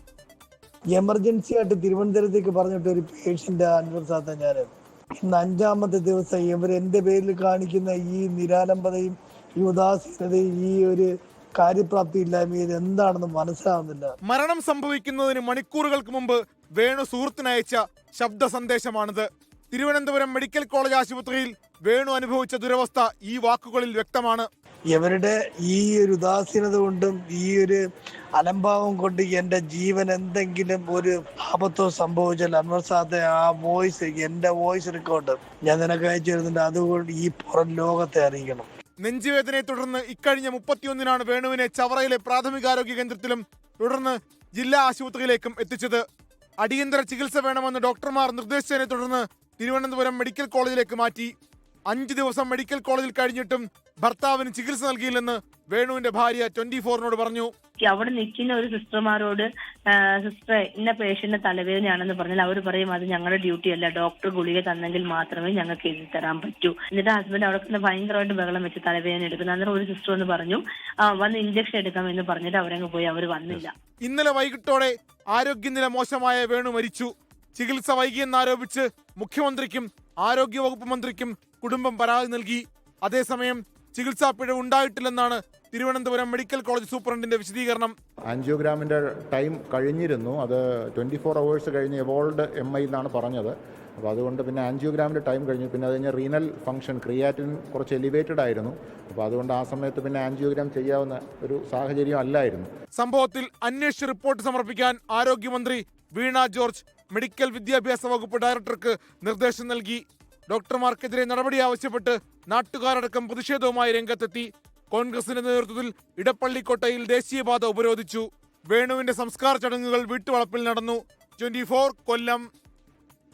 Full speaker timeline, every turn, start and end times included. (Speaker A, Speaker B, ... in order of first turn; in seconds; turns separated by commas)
Speaker A: 0.9-14.1, Speaker B: 14.3-24.5, Speaker A: 24.9-27.8, Speaker A: 28.4-38.7, Speaker B: 39.0-46.0, Speaker B: 46.6-51.3, Speaker B: 51.9-57.5, Speaker C: 57.8-73.7, Speaker B: 74.0-87.9, Speaker D: 88.3-102.7, Speaker B: 103.0-122.5